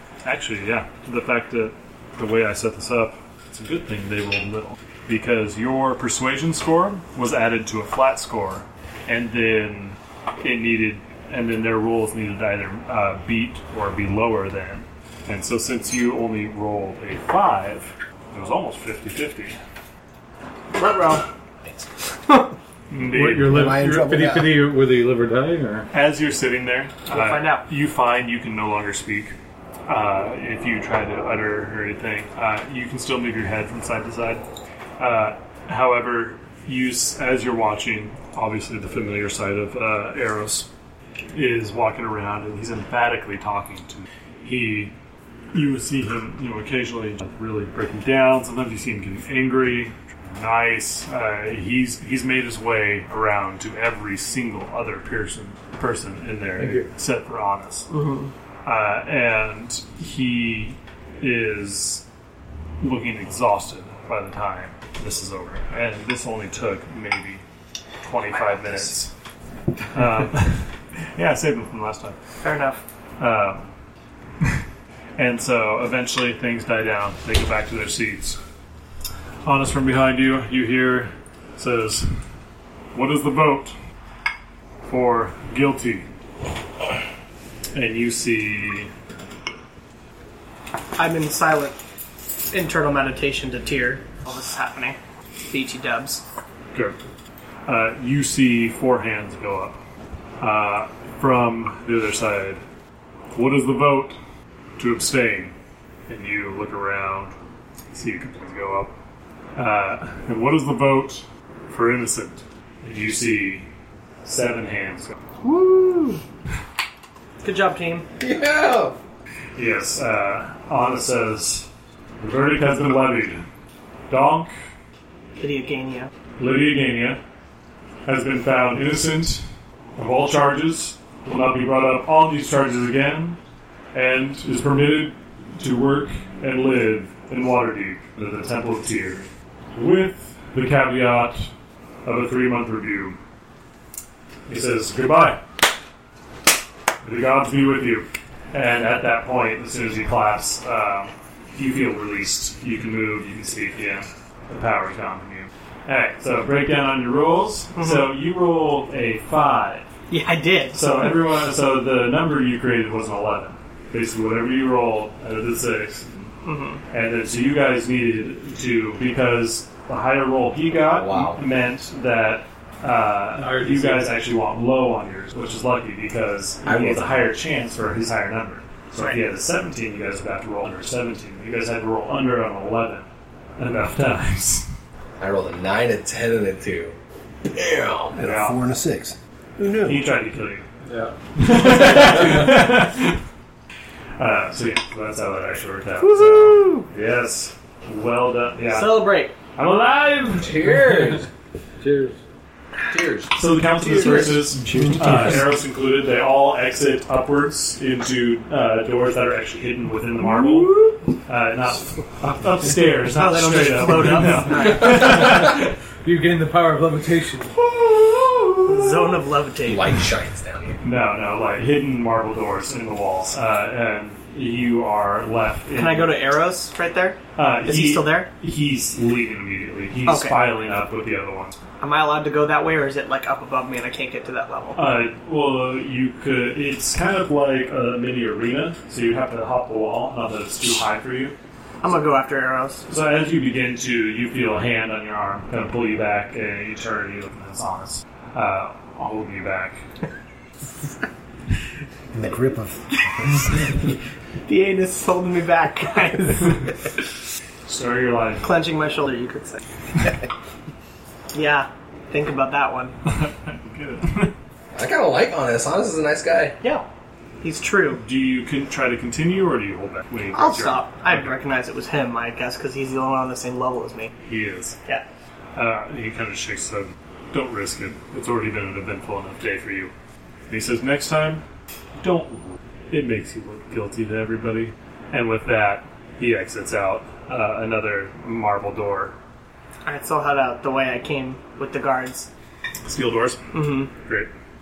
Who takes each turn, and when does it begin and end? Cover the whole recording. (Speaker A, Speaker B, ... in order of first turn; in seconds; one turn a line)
Speaker A: 0.2-19.6
Speaker B: 20.7-21.2
Speaker B: 22.3-22.5
Speaker A: 22.9-23.7
Speaker C: 23.0-25.9
Speaker D: 23.4-24.6
Speaker A: 25.9-29.3
Speaker B: 27.1-27.7
Speaker A: 29.9-34.4
Speaker A: 35.0-40.7
Speaker A: 41.3-44.9
Speaker A: 45.5-57.9
Speaker C: 56.6-56.9
Speaker B: 57.9-58.3
Speaker A: 58.6-62.0
Speaker A: 62.8-67.4
Speaker A: 68.0-69.1
Speaker A: 69.9-72.2
Speaker B: 72.4-72.8
Speaker A: 73.2-73.7
Speaker A: 75.2-78.4
Speaker A: 79.5-82.1
Speaker A: 82.9-83.8
Speaker A: 84.9-86.1
Speaker A: 87.7-88.9
Speaker B: 91.0-91.8
Speaker B: 92.5-95.0
Speaker B: 95.5-96.2
Speaker A: 97.7-99.8
Speaker A: 100.4-102.6
Speaker A: 103.3-104.2
Speaker A: 104.8-105.5
Speaker A: 106.1-107.3
Speaker A: 107.9-108.9
Speaker A: 109.6-113.7
Speaker A: 114.2-115.2
Speaker B: 115.4-116.2
Speaker B: 117.4-118.1
Speaker E: 118.2-119.0
Speaker A: 119.6-121.7
Speaker A: 122.2-123.5
Speaker A: 124.1-124.5
Speaker B: 125.4-126.1
Speaker A: 126.4-127.2
Speaker A: 128.1-129.4
Speaker A: 130.0-133.4
Speaker A: 133.9-141.5
Speaker A: 142.1-143.2
Speaker A: 144.5-145.4
Speaker A: 147.0-159.8
Speaker B: 157.8-158.1
Speaker B: 160.1-160.9
Speaker A: 160.7-166.1
Speaker B: 166.4-166.8
Speaker A: 166.9-184.7
Speaker E: 170.9-171.4
Speaker C: 173.4-174.1
Speaker E: 176.7-177.1
Speaker E: 185.2-186.9
Speaker E: 187.5-188.2
Speaker D: 188.1-190.0
Speaker A: 188.2-188.6
Speaker A: 189.8-190.7
Speaker C: 190.9-191.1
Speaker A: 191.3-193.2
Speaker A: 194.2-200.8
Speaker B: 196.0-196.9
Speaker B: 198.7-199.3
Speaker E: 200.4-201.3
Speaker C: 201.8-202.2
Speaker E: 202.9-203.3
Speaker A: 203.3-215.7
Speaker E: 204.0-204.3
Speaker B: 204.0-204.3
Speaker C: 204.6-205.4
Speaker B: 210.4-211.0
Speaker B: 213.2-215.3
Speaker C: 215.0-218.3
Speaker B: 218.7-219.9
Speaker E: 219.7-220.8
Speaker A: 220.8-226.2
Speaker B: 225.7-228.3
Speaker A: 227.4-231.6
Speaker B: 230.1-230.4
Speaker B: 231.8-234.8
Speaker A: 234.8-241.3
Speaker B: 241.8-242.9
Speaker A: 242.9-249.8
Speaker D: 252.1-253.8
Speaker B: 254.5-256.7
Speaker A: 257.7-258.4
Speaker B: 258.4-259.6
Speaker B: 261.3-262.9
Speaker A: 263.1-264.3
Speaker E: 264.8-266.6
Speaker B: 267.4-268.0
Speaker A: 268.0-271.4
Speaker B: 270.3-274.1
Speaker A: 274.3-274.8
Speaker A: 275.6-279.9
Speaker A: 280.5-281.4
Speaker A: 282.0-289.1
Speaker B: 289.9-292.3
Speaker A: 292.9-294.3
Speaker B: 293.5-293.9